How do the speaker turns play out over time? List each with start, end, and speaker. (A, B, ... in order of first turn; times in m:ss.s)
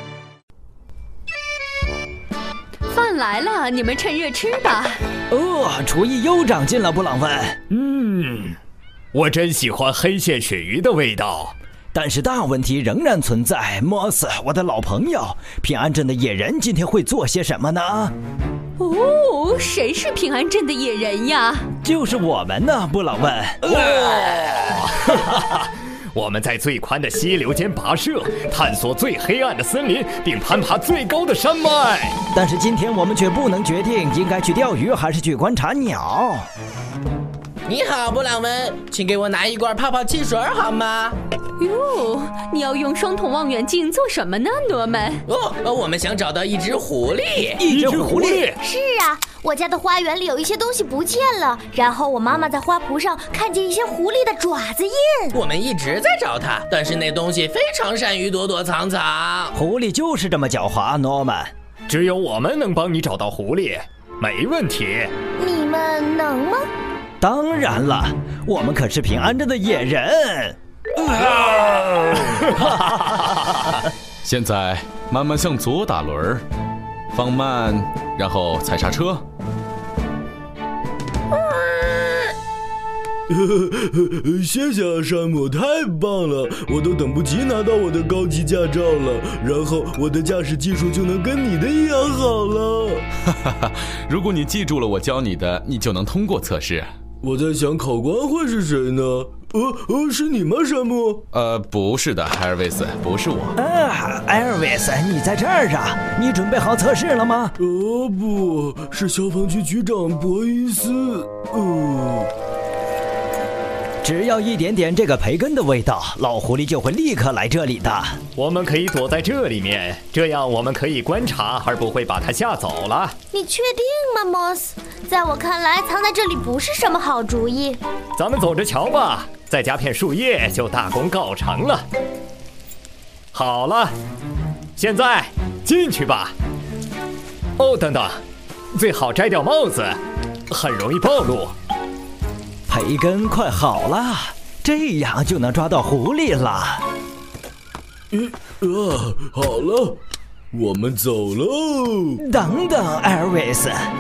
0:02.9-0:05.0 A
0:05.3-0:07.6 B
0:07.7-0:08.6 C
0:09.1-0:11.5 C
0:11.9-0:18.1 B
0:18.8-0:21.6 A
0:21.8-0:24.0 B
0:23.7-0:32.2 C
0:32.3-0:36.5 B
0:37.7-0:41.2 D
0:41.6-0:45.2 A
0:45.3-0:47.6 D
0:47.6-0:48.5 B
0:47.7-0:48.6 C
0:48.6-0:55.4 E
0:55.3-0:59.5 D
0:59.6-1:01.5 B
1:01.9-1:05.1 C
1:05.4-1:06.7 E
1:07.2-1:10.6 B
1:11.8-1:12.4 C
1:12.6-1:12.9 B
1:14.2-1:16.4 F
1:17.1-1:19.2 F
1:23.3-1:33.0 G
1:33.3-1:36.9 F
1:37.2-1:41.2 G
1:41.3-1:43.6 F
1:43.6-1:47.5 B
1:47.6-1:52.3 G
1:54.0-1:58.2 B
1:58.4-2:03.2 C
2:03.3-2:07.8 E
2:08.2-2:11.9 C
2:13.3-2:14.0 C
2:14.8-2:16.4 C
2:17.6-2:20.0 C
2:20.5-2:21.5 C
2:22.7-2:26.8 B
2:28.1-2:30.0 G
2:30.5-2:32.2 G
2:32.2-2:33.8 B